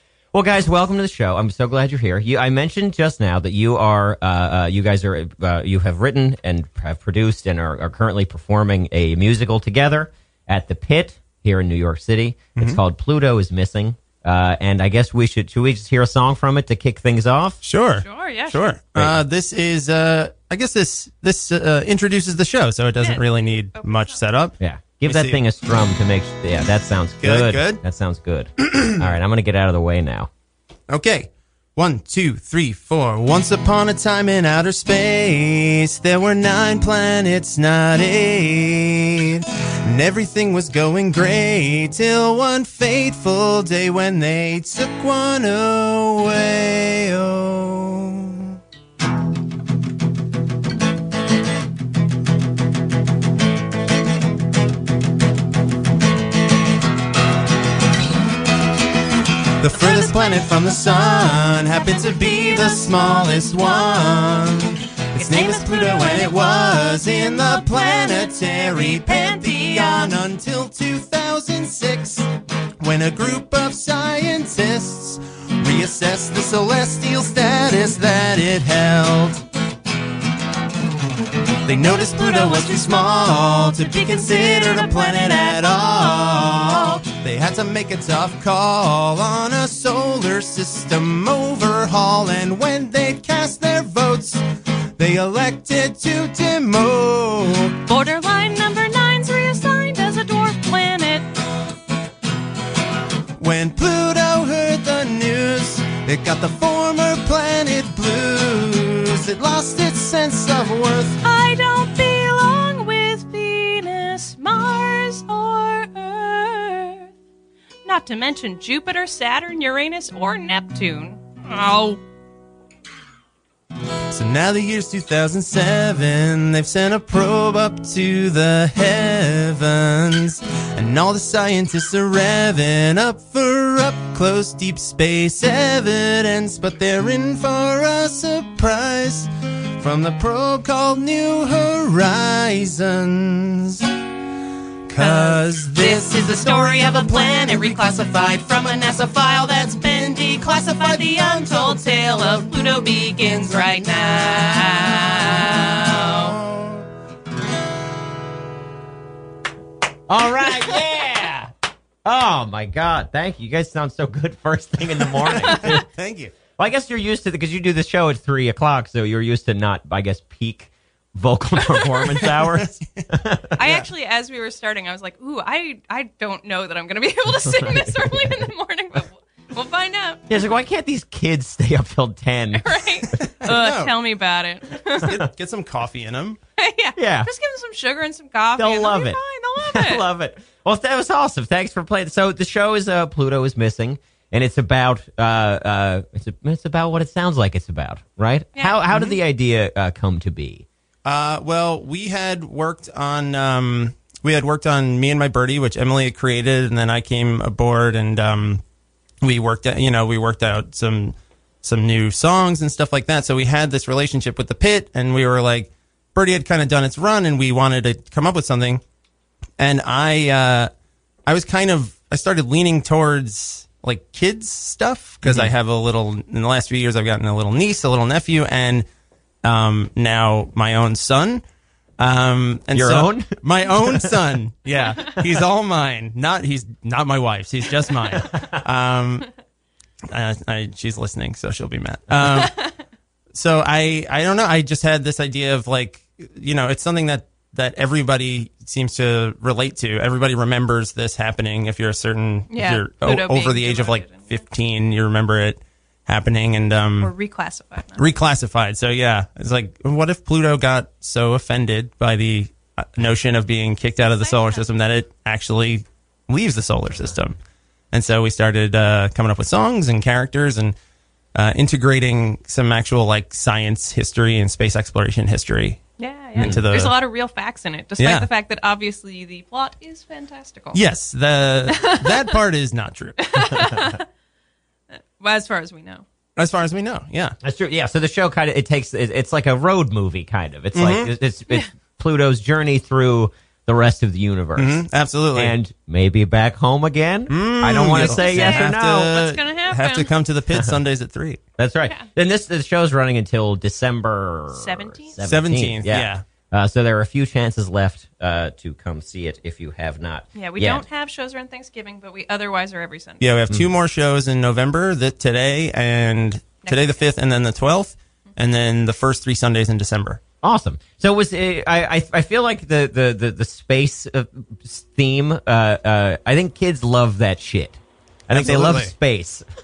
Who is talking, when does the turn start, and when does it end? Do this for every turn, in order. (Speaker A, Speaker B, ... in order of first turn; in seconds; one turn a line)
Speaker A: 0.3-17.6
Speaker B: 17.6-25.4
Speaker C: 18.0-18.8
Speaker C: 23.0-24.2
Speaker A: 24.6-30.3
Speaker B: 27.2-27.8
Speaker B: 28.6-29.0
Speaker B: 30.9-48.6
Speaker B: 59.6-72.3
Speaker C: 59.7-64.5
Speaker C: 65.2-70.2
Speaker B: 72.8-79.4
Speaker B: 81.7-94.4
Speaker C: 81.8-87.0
Speaker B: 95.0-97.8
Speaker C: 97.9-101.3
Speaker B: 103.4-111.2
Speaker C: 111.2-117.1
Speaker C: 117.8-122.0
Speaker B: 124.1-143.8
Speaker B: 144.9-146.3
Speaker C: 145.0-156.3
Speaker B: 151.0-151.4
Speaker B: 156.3-156.8
Speaker A: 160.1-161.5
Speaker A: 162.0-165.8
Speaker B: 165.4-166.3
Speaker A: 166.5-173.6
Speaker B: 172.4-172.7
Speaker C: 173.6-180.3
Speaker A: 177.2-178.5
Speaker A: 180.3-183.2
Speaker C: 182.5-185.2
Speaker B: 183.2-184.0
Speaker B: 184.9-186.4
Speaker C: 186.6-190.1
Speaker A: 186.9-187.3
Speaker A: 188.6-200.7
Speaker C: 198.5-199.0
Speaker B: 201.0-208.6
Speaker B: 209.2-218.8
Speaker B: 219.6-220.7
Speaker B: 221.2-228.9
Speaker A: 225.2-225.5
Speaker B: 229.4-231.4
Speaker B: 232.0-239.3
Speaker A: 232.7-234.1
Speaker B: 240.1-242.6
Speaker C: 242.2-242.7
Speaker B: 243.3-257.1
Speaker C: 252.5-254.4
Speaker C: 257.0-258.1
Speaker B: 258.0-267.4
Speaker C: 264.0-264.7
Speaker B: 267.9-270.8
Speaker B: 271.3-275.8
Speaker C: 276.0-280.8
Speaker B: 276.3-277.0
Speaker A: 276.4-276.6
Speaker B: 278.0-278.3
Speaker B: 280.7-283.7
Speaker C: 281.7-282.3
Speaker C: 283.2-284.1
Speaker C: 285.2-286.0
Speaker B: 286.4-287.3
Speaker A: 287.4-299.2
Speaker B: 290.7-291.1
Speaker B: 294.6-295.5
Speaker B: 297.3-301.4
Speaker C: 297.9-300.1
Speaker A: 301.6-310.8
Speaker C: 304.5-305.2
Speaker B: 305.2-306.2
Speaker C: 310.3-313.3
Speaker B: 313.2-320.2
Speaker C: 316.6-317.1
Speaker A: 320.4-329.4
Speaker B: 328.3-328.9